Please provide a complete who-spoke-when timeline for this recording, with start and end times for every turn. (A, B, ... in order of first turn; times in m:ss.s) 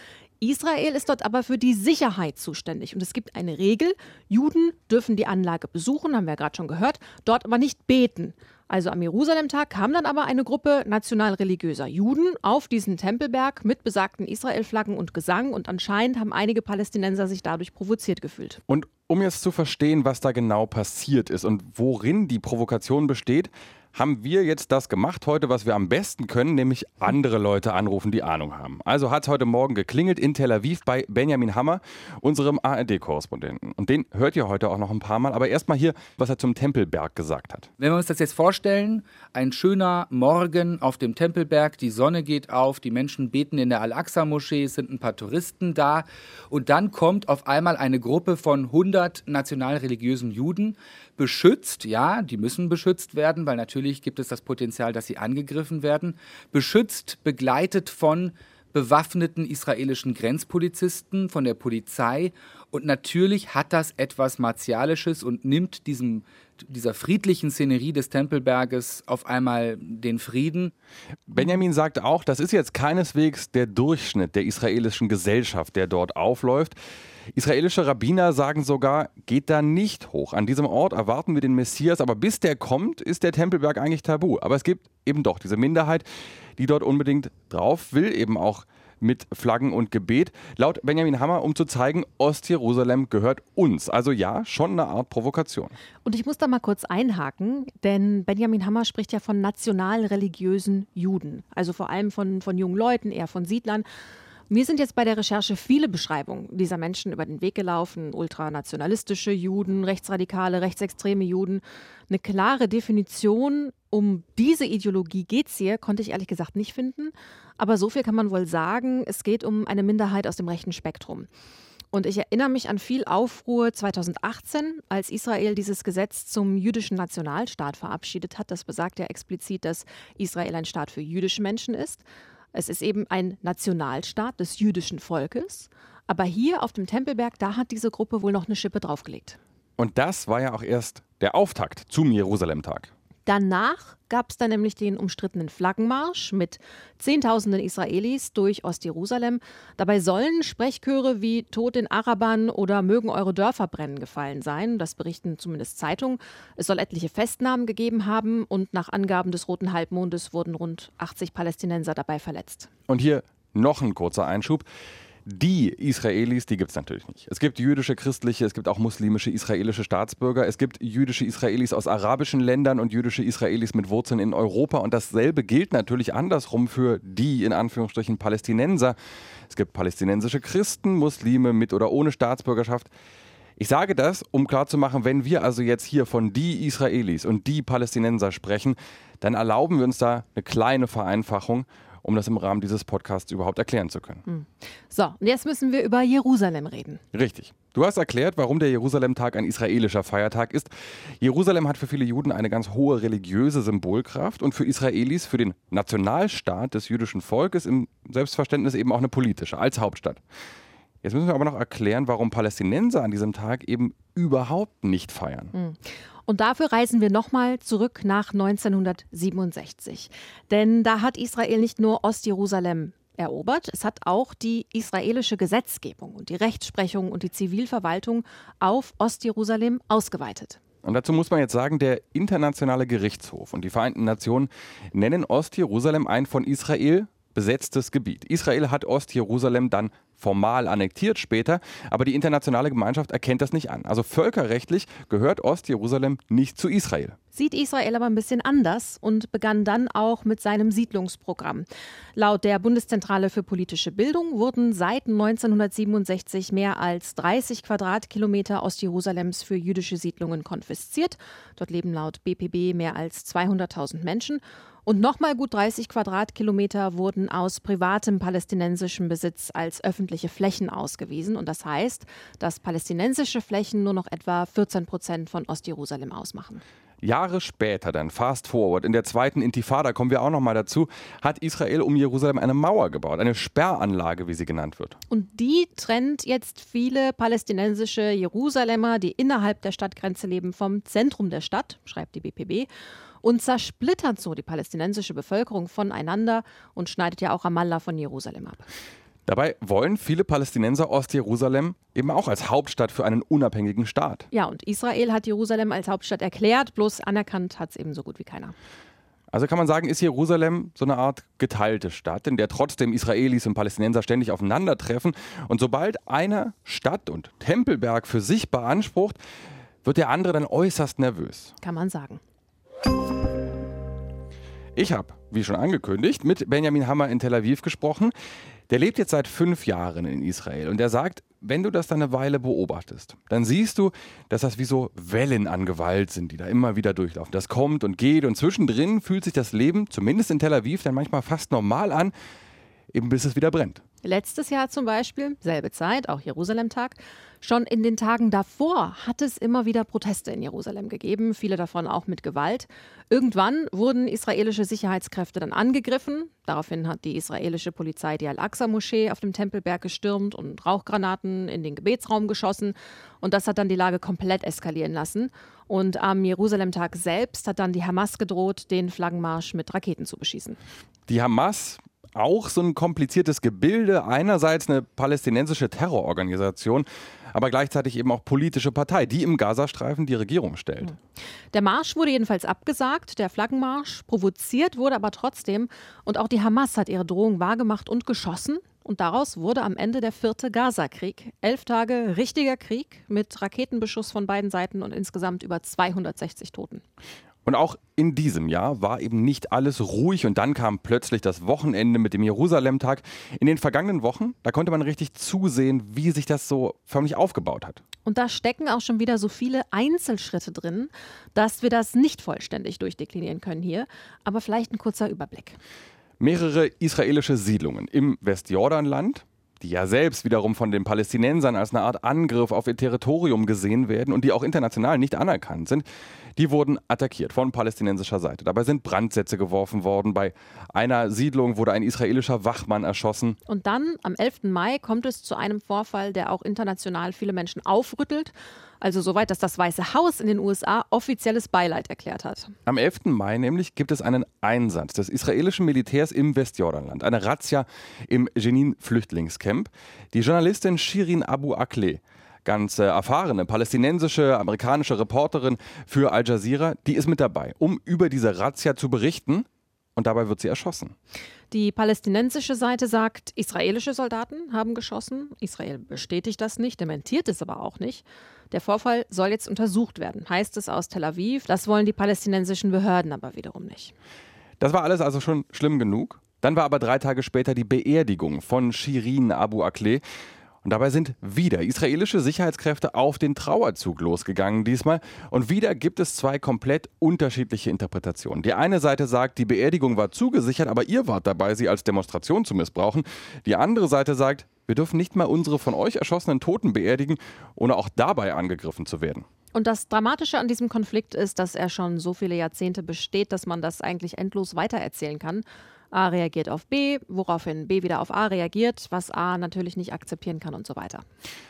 0:00.4-0:18.6 A
0:18.7-0:37.7 B
0:37.8-1:10.7 C
1:11.3-1:16.8 B
1:17.3-1:26.0 B
1:26.6-1:35.7 B
1:36.0-1:43.8 A
1:44.5-2:01.3 A
2:01.9-2:19.4 A
2:19.8-2:22.9 B
2:23.2-2:42.7 A
2:42.9-2:44.6 B
2:45.3-2:59.0 B
2:59.5-3:02.9 B
3:03.6-3:14.2 B
3:14.2-3:17.0 A
3:17.1-3:20.7 B
3:21.2-3:30.2 B
3:31.0-3:35.5 B
3:35.5-3:50.6 A
3:50.8-4:07.2 B
4:07.3-4:36.6 A
4:37.0-4:45.0 B
4:45.1-4:52.7 A
4:53.2-4:58.6 A
4:59.2-5:04.2 B
5:04.3-5:08.5 A
5:09.3-5:19.2 B
5:19.8-5:21.5 B
5:21.6-5:22.2 A
5:24.8-5:28.1 B
5:28.7-5:42.1 B
5:42.9-5:43.8 B
5:44.0-6:10.6 A
6:11.1-6:21.0 B
6:21.5-6:36.8 A
6:37.4-6:47.8 B
6:48.0-6:55.6 A
6:56.2-7:05.8 B
7:06.4-7:13.4 B
7:13.5-7:22.5 A
7:22.6-7:40.9 B
7:41.5-7:53.9 A
7:54.6-8:00.0 B
8:00.6-8:19.2 B
8:19.5-8:31.0 A